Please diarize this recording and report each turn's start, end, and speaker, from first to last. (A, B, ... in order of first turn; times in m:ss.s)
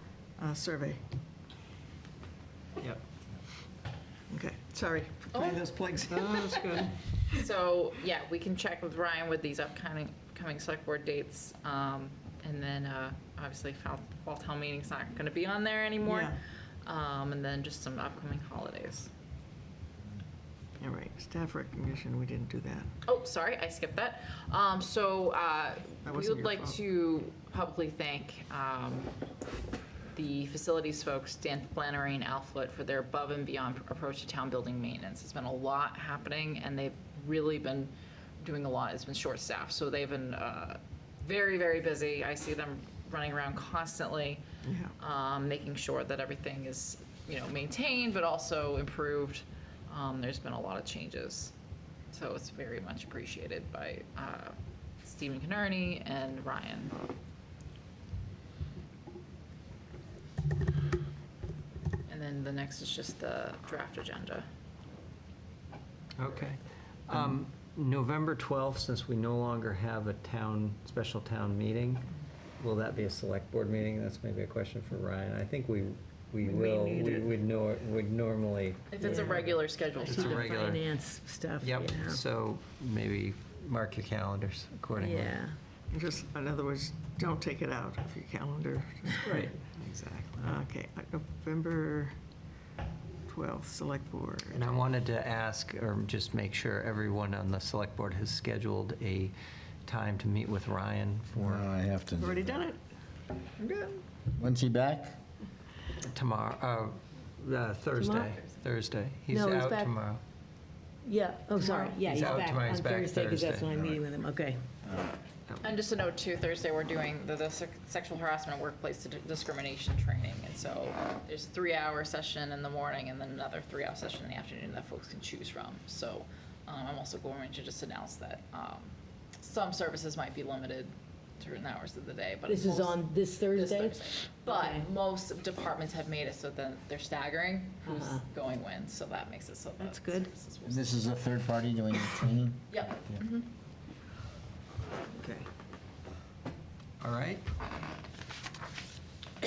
0:00.4-0:01.0 A
0:04.3-0:06.9 A
0:05.3-0:05.6 B
0:06.1-0:07.0 C
0:07.3-0:19.1 B
0:16.0-0:16.4 A
0:20.8-0:22.9 A
0:23.0-0:29.1 B
0:26.0-0:26.8 A
0:30.1-0:44.4 B
0:44.6-0:44.9 A
0:45.0-0:51.5 B
0:52.1-0:56.9 B
1:02.1-1:04.5 B
1:06.2-1:12.1 C
1:12.6-1:19.5 C
1:16.4-1:17.3 A
1:18.9-1:20.5 B
1:19.0-1:19.4 D
1:20.0-1:22.2 D
1:20.0-1:20.9 C
1:21.6-1:25.4 C
1:25.0-1:25.6 D
1:25.9-1:29.5 A
1:29.2-1:30.6 C
1:30.4-1:32.1 A
1:33.3-1:34.7 A
1:34.5-1:39.3 C
1:39.8-1:41.6 C
1:41.4-1:42.6 E
1:42.2-1:42.8 A
1:43.6-1:44.0 A
1:44.3-1:45.2 E
1:46.0-1:50.2 C
1:47.9-1:48.3 D
1:49.3-1:49.9 D
1:51.0-1:54.6 D
1:51.6-1:52.4 A
1:52.0-1:54.0 C
1:55.6-2:21.0 B
2:12.4-2:14.8 D
2:17.8-2:18.2 D
2:19.8-2:20.3 D
2:20.6-2:22.7 E
2:22.7-2:23.5 B
2:27.0-2:27.4 C